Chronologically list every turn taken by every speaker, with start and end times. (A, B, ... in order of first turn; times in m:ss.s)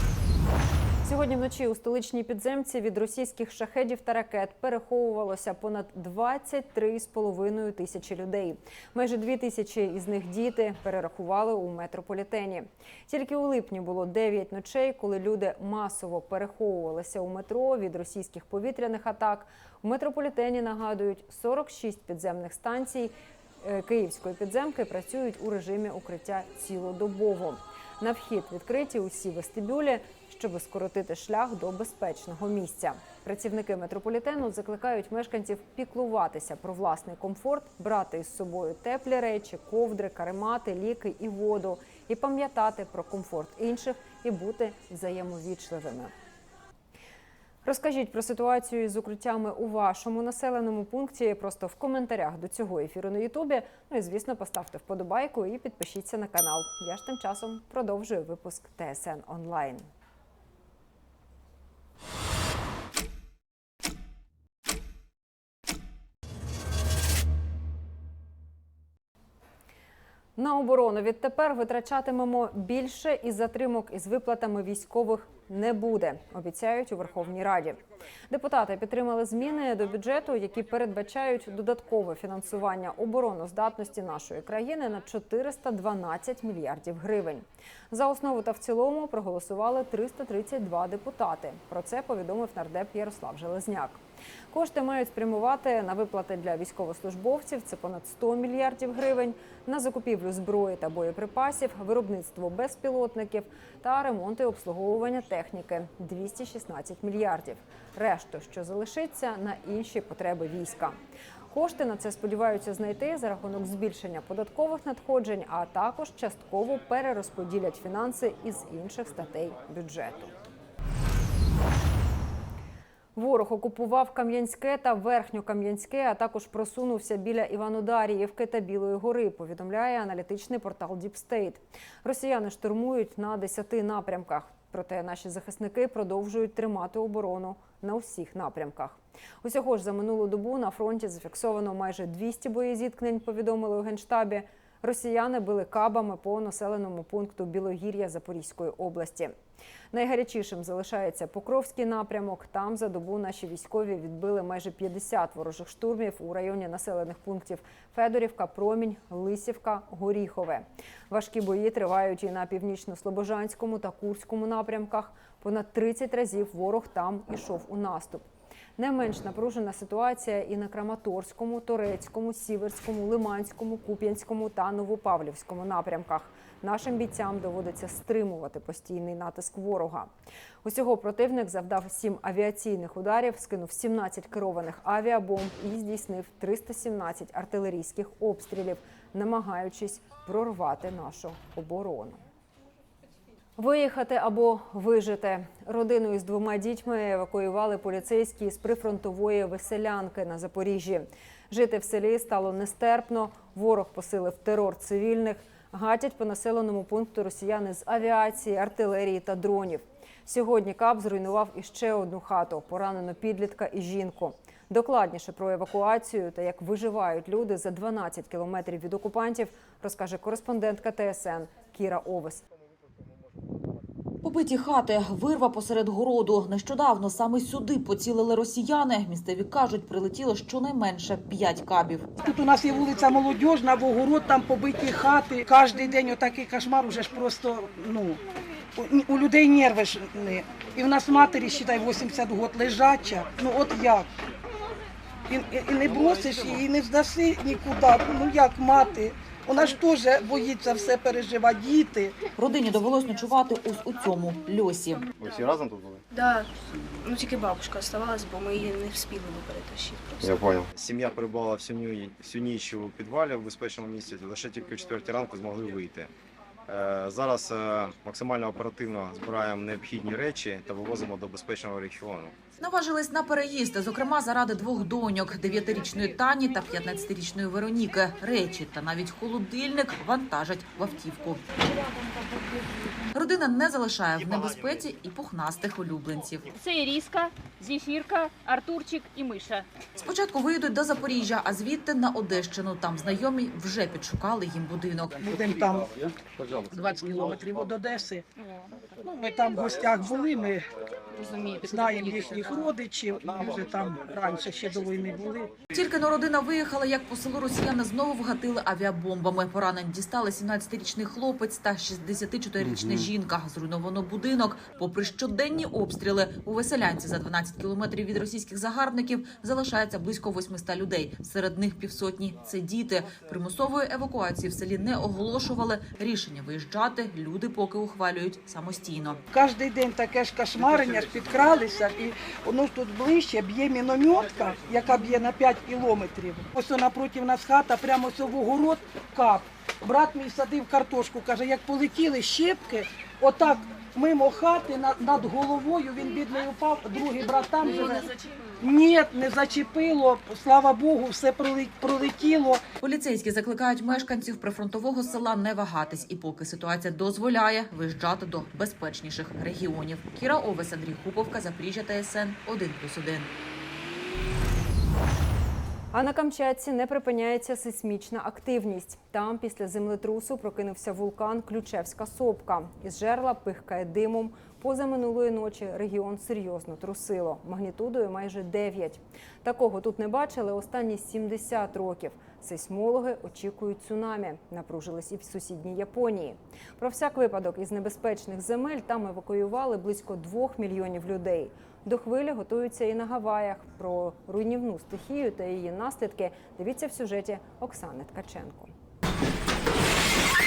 0:01.0-0:46.1 A
0:47.6-0:59.9 A
1:10.4-1:51.0 A
1:51.5-2:00.4 A
2:03.2-2:29.3 A
2:29.9-2:48.3 A
2:48.8-3:00.1 A
3:00.6-3:12.2 A
3:13.6-3:42.4 A
3:44.2-3:52.1 B
3:52.2-3:58.2 C
3:58.8-4:04.1 C
4:05.3-4:12.2 C
4:12.4-4:15.1 B
4:15.2-4:16.0 D
4:16.1-4:16.5 E
4:17.0-4:20.3 E
4:20.2-4:26.1 D
4:26.7-4:32.4 D
4:32.6-4:41.7 B
4:43.1-4:46.5 B
4:46.5-4:49.6 F
4:50.0-4:55.6 B
4:55.2-4:55.9 C
4:56.8-4:58.2 C
4:59.0-5:00.6 C
5:01.6-5:05.5 C
5:05.7-5:29.2 B
5:29.3-5:52.6 C
5:52.8-6:03.3 B
6:05.9-6:38.7 A